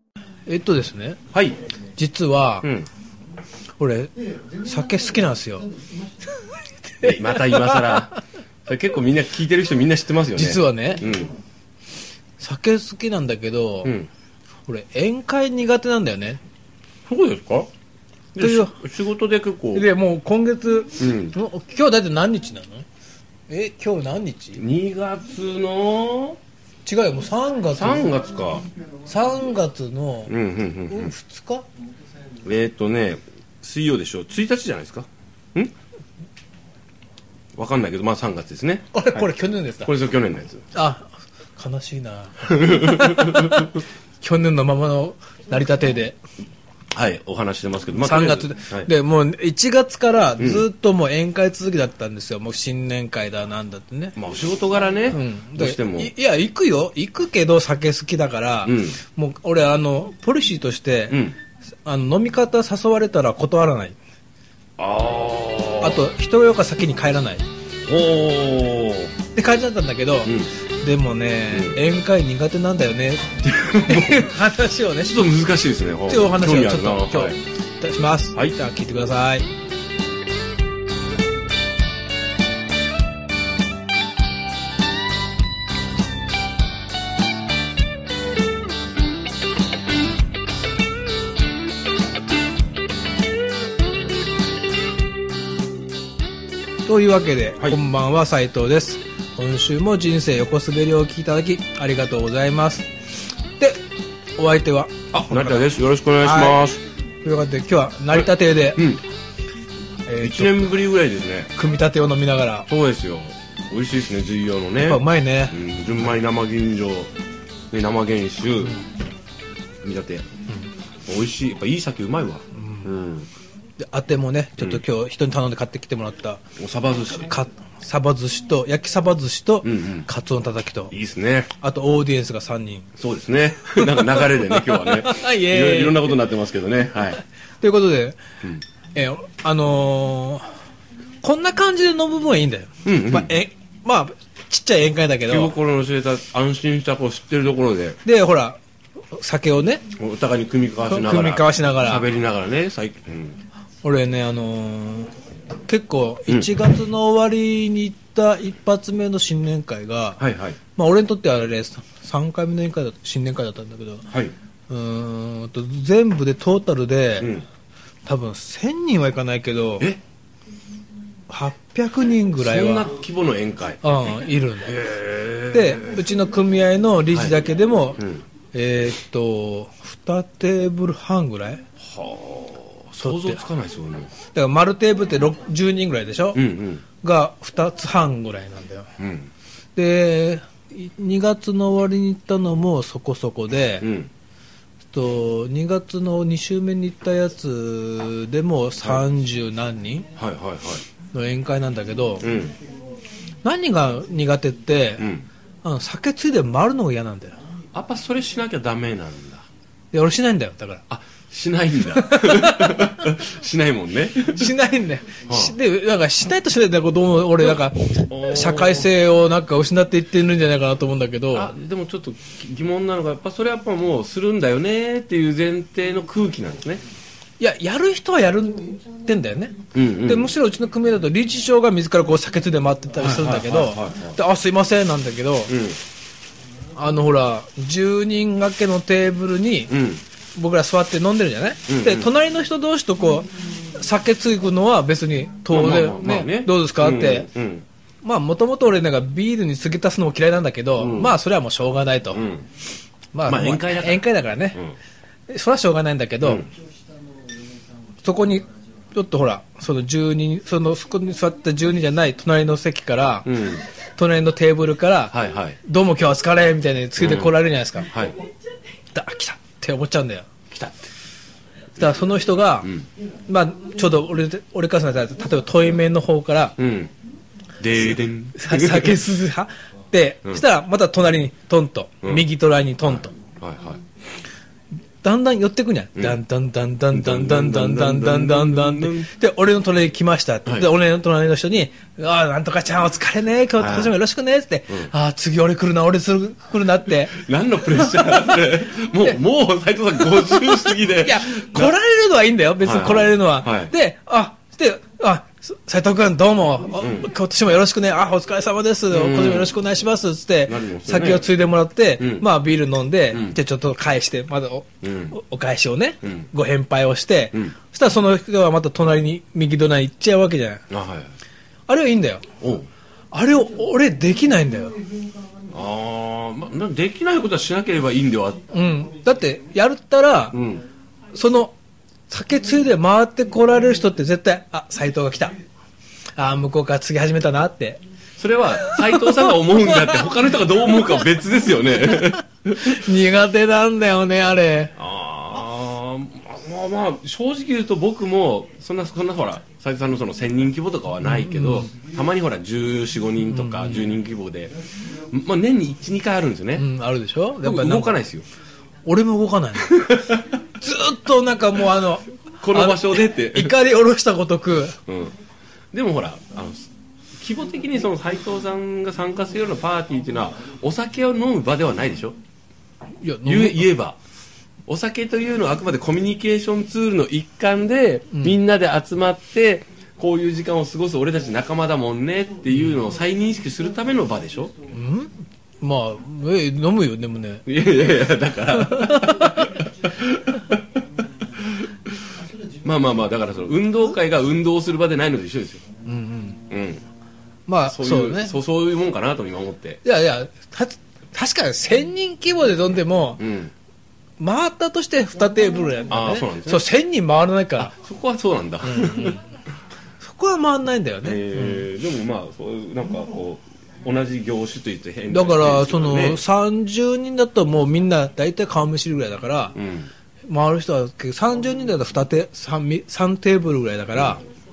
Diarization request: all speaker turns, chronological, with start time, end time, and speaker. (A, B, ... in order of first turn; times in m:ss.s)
0:00.5-0:01.2 A
0:01.3-0:01.6 B
0:02.0-0:02.7 A
0:02.6-0:02.9 B
0:03.8-0:05.7 A
0:07.0-0:08.0 A
0:07.0-0:11.4 B
0:10.4-0:11.1 A
0:12.4-0:13.9 A
0:13.8-0:14.1 B
0:14.7-0:16.4 A
0:17.1-0:17.7 B
0:18.3-0:19.8 B
0:18.4-0:18.7 A
0:19.7-0:22.9 A
0:21.0-0:21.4 B
0:23.5-0:24.6 A
0:24.6-0:26.4 B
0:26.8-0:28.1 A
0:27.7-0:28.7 B
0:29.1-0:30.4 A
0:30.3-0:31.1 B
0:30.9-0:31.7 A
0:32.4-0:35.7 B
0:37.6-0:39.3 B
0:38.9-0:39.9 A
0:39.8-0:40.7 B
0:40.7-0:46.2 A
0:42.5-0:43.7 B
0:46.9-0:48.9 B
0:48.0-0:54.2 A
0:50.4-0:50.6 B
0:54.2-0:56.1 B
0:55.1-1:01.2 A
0:58.6-0:59.0 B
1:01.1-1:01.4 B
1:01.8-1:04.0 A
1:04.8-1:06.1 B
1:05.8-1:07.5 A
1:07.8-1:09.2 B
1:09.3-1:15.2 A
1:10.2-1:10.5 B
1:11.5-1:11.8 B
1:13.4-1:14.3 B
1:15.0-1:17.4 B
1:16.1-1:19.5 A
1:36.8-1:42.9 A
1:43.6-1:43.8 A
1:44.4-1:45.7 A
1:45.1-1:46.8 B
1:46.2-1:46.6 A
1:47.2-1:48.8 A
1:48.1-1:49.0 B
1:50.1-1:50.8 A
1:50.2-1:51.5 B
1:51.6-1:52.7 A
1:52.7-1:57.1 B
1:54.8-1:55.6 A
1:57.7-1:58.8 B
1:59.8-2:00.3 B
2:01.1-2:03.3 B
2:02.6-2:02.9 A
2:03.8-2:06.4 A
2:04.6-2:04.8 B
2:06.6-2:07.3 B
2:07.1-2:10.9 A
2:09.6-2:10.1 B
2:10.9-2:11.5 B
2:11.6-2:12.9 A
2:13.0-2:17.2 B
2:13.8-2:16.2 A
2:17.6-2:18.2 A
2:19.0-2:20.5 A
2:21.2-2:25.5 A
2:22.8-2:23.4 B
2:25.3-2:28.0 B
2:28.0-2:28.6 A
2:29.1-2:29.8 A
2:29.9-2:33.4 B
2:30.9-2:32.1 A
2:33.8-2:35.1 A
2:35.7-2:40.2 A
2:40.2-2:40.6 B
2:40.8-2:44.1 A
2:44.7-2:47.3 A
2:47.2-2:47.4 B
2:48.0-2:49.9 A
2:51.3-2:52.9 A
2:52.4-2:54.0 B
2:53.8-2:54.8 A
2:54.7-2:55.8 B
2:55.5-3:01.6 A
2:57.1-2:57.4 B
3:01.8-3:04.1 B
3:03.0-3:03.4 A
3:04.3-3:06.4 A
3:06.4-3:06.8 B
3:07.0-3:08.9 A
3:09.0-3:09.3 B
3:09.8-3:13.9 A
3:13.8-3:14.1 B
3:14.9-3:20.1 A
3:20.2-3:20.8 B
3:21.1-3:22.3 A
3:22.2-3:22.6 B
3:23.4-3:25.1 A
3:25.0-3:25.3 B
3:25.6-3:27.4 A
3:27.7-3:29.4 B
3:29.9-3:30.8 A
3:30.9-3:34.6 B
3:31.9-3:33.0 A
3:34.2-3:41.5 A
3:35.3-3:35.6 B
3:37.4-3:38.9 B
3:41.3-3:46.8 B
3:47.4-3:55.6 A
3:49.7-3:50.3 B
3:53.0-3:54.2 B
3:55.5-3:55.8 B
3:56.8-3:59.8 A
3:59.7-4:00.0 B
4:00.4-4:07.3 A
4:01.7-4:02.1 B
4:05.5-4:07.6 B
4:08.0-4:12.2 A
4:10.8-4:11.2 B
4:12.1-4:12.5 B
4:13.1-4:14.6 A
4:13.2-4:14.8 B
4:15.3-4:16.5 A
4:16.2-4:16.5 B
4:18.0-4:23.3 A
4:23.2-4:23.6 B
4:24.0-4:27.9 A
4:25.1-4:25.6 B
4:27.0-4:27.4 B
4:27.9-4:28.2 B
4:28.9-4:30.3 A
4:30.5-4:30.9 B
4:31.8-4:32.7 A
4:33.3-4:36.6 A
4:36.6-4:36.9 B
4:37.6-4:39.1 B
4:38.4-4:43.2 A
4:42.8-4:43.8 B
4:45.0-4:57.2 A
4:46.9-4:49.1 B
4:53.6-4:54.0 B
4:57.1-5:01.7 B
4:57.7-4:58.3 A
5:00.3-5:20.6 A
5:02.6-5:03.7 B
5:06.8-5:07.1 B
5:08.9-5:09.5 B
5:10.5-5:11.3 B
5:12.0-5:12.3 B
5:13.1-5:13.4 B
5:14.8-5:15.2 B
5:20.7-5:21.1 B
5:21.7-5:22.3 A
5:22.4-5:22.7 B
5:23.1-5:24.8 A
5:25.5-5:28.5 B
5:28.5-5:30.4 A
5:30.3-5:30.6 B
5:31.1-5:31.5 A
5:32.1-5:35.4 A
5:36.2-5:37.8 A
5:38.2-5:42.8 B
5:38.6-5:40.2 A
5:40.8-5:41.1 A
5:41.8-5:44.8 A
5:44.8-5:56.7 B
5:51.0-5:51.7 A
5:53.3-5:53.9 A
5:56.6-5:58.0 A
5:57.4-5:58.3 B
5:58.8-5:59.9 A
5:59.8-6:00.3 B
6:00.6-6:04.8 A
6:02.4-6:03.6 B
6:04.9-6:05.2 B
6:05.7-6:06.7 B
6:07.2-6:12.2 B
6:13.0-6:13.7 A
6:13.2-6:14.0 B
6:14.7-6:24.6 B
6:24.7-6:27.4 A
6:27.5-6:30.6 B
6:28.6-6:29.6 A
6:31.2-6:35.6 B
6:35.8-6:36.4 A
6:36.5-6:36.8 B
6:37.5-6:38.4 A
6:37.6-6:39.8 B
6:39.8-6:43.2 A
6:43.2-6:43.5 B
6:44.2-6:47.7 A
6:45.9-6:46.7 B
6:47.6-6:49.2 B
6:48.6-6:49.2 A
6:50.0-6:51.7 A
6:51.0-6:56.2 B
6:55.1-6:59.6 A
6:59.6-6:59.9 B
7:00.3-7:04.2 A